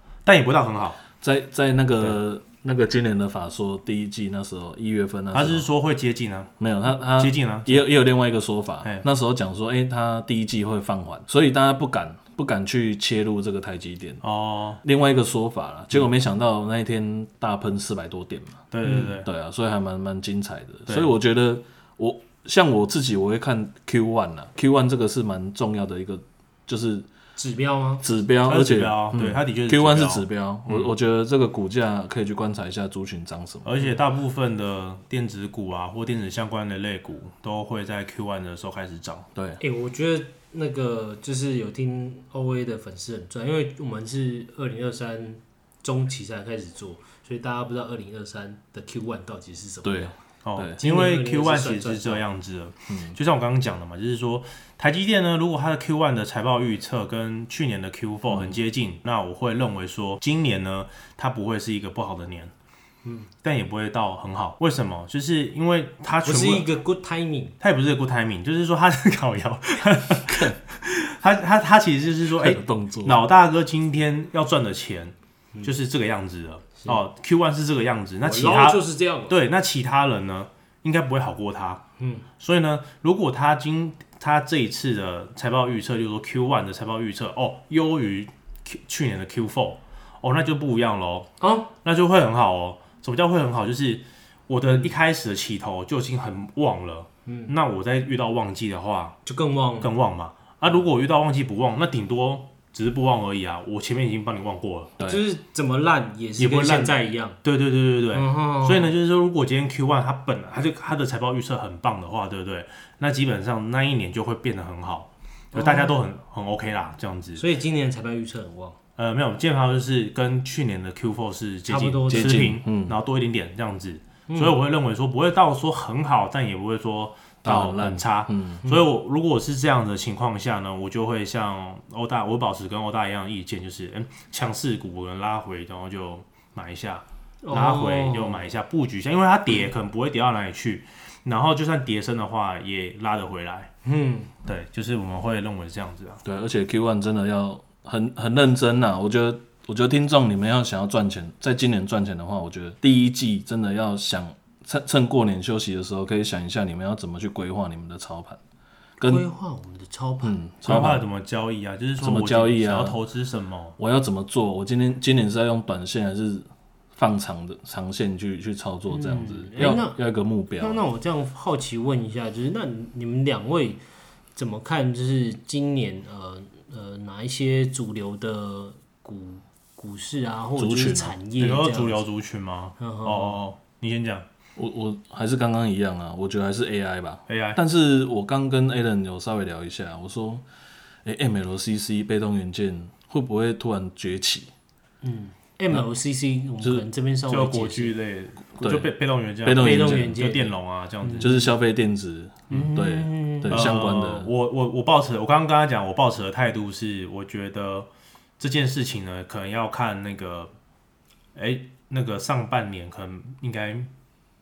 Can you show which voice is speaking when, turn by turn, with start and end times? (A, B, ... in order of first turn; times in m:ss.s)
0:00.2-0:01.0 A
0:01.2-0:05.7 B
0:05.3-0:06.5 A
0:06.6-0:14.2 B
0:07.1-0:07.9 A
0:14.2-0:14.8 A
0:14.8-0:27.1 B
0:18.7-0:19.3 A
0:18.8-0:19.1 C
0:20.9-0:21.1 A
0:27.4-0:28.0 C
0:28.0-0:33.7 B
0:28.4-0:30.9 A
0:33.6-0:39.2 A
0:39.4-0:39.6 B
0:39.6-0:50.1 C
0:49.8-0:50.8 B
0:50.4-1:02.5 A
0:50.8-0:52.2 C
0:52.9-0:53.2 B
0:58.3-0:58.6 B
1:03.4-1:06.7 A
1:06.2-1:07.5 C
1:07.6-1:21.8 A
1:10.3-1:10.6 B
1:12.3-1:13.2 B
1:18.2-1:19.3 C
1:22.0-1:22.2 C
1:22.4-1:31.3 A
1:31.4-1:31.7 C
1:31.8-1:39.2 A
1:37.2-1:37.5 C
1:39.2-1:39.9 C
1:39.8-1:44.9 A
1:45.0-1:45.2 B
1:45.0-1:47.4 C
1:46.4-1:57.4 A
1:48.1-1:48.9 C
1:55.5-1:56.0 C
1:57.4-1:58.8 C
1:59.0-2:23.7 A
2:01.7-2:02.5 C
2:02.1-2:03.0 B
2:04.3-2:04.6 C
2:07.4-2:08.6 B
2:17.4-2:18.5 C
2:23.8-2:24.3 C
2:24.4-2:26.2 A
2:26.2-2:38.4 B
2:39.0-2:39.2 B
2:39.0-2:40.4 C
2:40.2-2:41.0 B
2:40.6-2:43.8 A
2:42.0-2:43.0 B
2:43.8-2:50.8 B
2:48.9-2:50.0 C
2:50.6-2:53.8 C
2:54.3-3:02.0 C
3:00.6-3:01.2 B
3:01.4-3:04.2 A
3:02.8-3:03.4 C
3:04.6-3:10.4 B
3:07.3-3:07.6 A
3:11.0-3:14.5 B
3:15.0-3:18.0 C
3:16.6-3:16.8 B
3:17.3-3:21.4 A
3:18.6-3:18.9 B
3:19.4-3:20.2 B
3:19.5-3:21.5 C
3:21.1-3:24.3 B
3:22.5-3:23.7 C
3:23.5-3:27.9 A
3:28.4-3:30.5 A
3:31.3-3:33.9 A